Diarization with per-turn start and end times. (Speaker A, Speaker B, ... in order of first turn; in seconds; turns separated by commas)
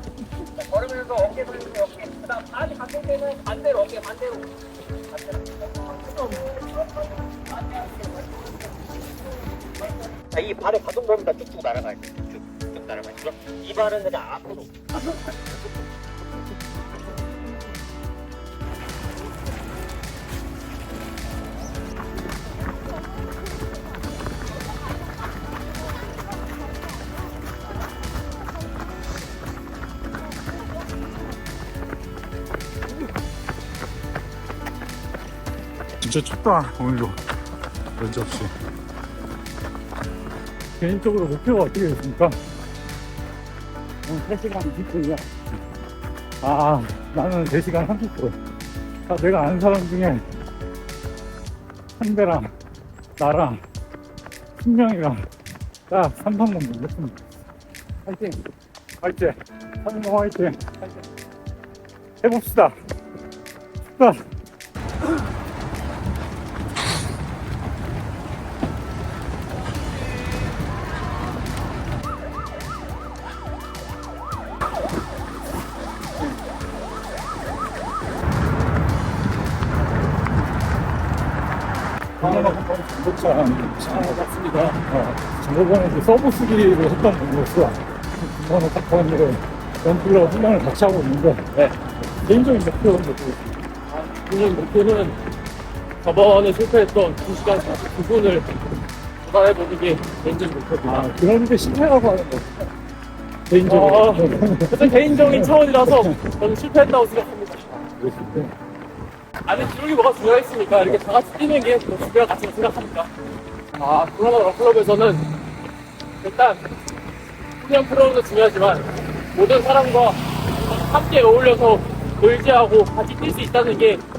Speaker A: 0.6-15.6, Speaker B: 36.0-37.2, Speaker B: 38.0-38.5, Speaker B: 40.8-42.4, Speaker B: 44.0-45.3, Speaker B: 46.4-48.4, Speaker B: 49.1-50.2, Speaker B: 52.0-52.5, Speaker B: 53.2-53.6, Speaker B: 54.6-55.2, Speaker B: 55.9-57.2, Speaker B: 58.0-58.4, Speaker B: 59.0-61.0, Speaker B: 62.2-62.8, Speaker B: 64.0-64.2, Speaker B: 82.2-91.7, Speaker C: 83.9-84.7, Speaker B: 92.3-93.3, Speaker C: 93.9-95.2, Speaker C: 96.0-98.5, Speaker C: 99.2-101.1, Speaker B: 100.8-102.6, Speaker B: 103.5-106.2, Speaker C: 103.7-107.7, Speaker B: 107.8-108.5, Speaker C: 109.5-113.1, Speaker C: 113.8-115.2, Speaker C: 116.2-116.6, Speaker C: 117.6-124.0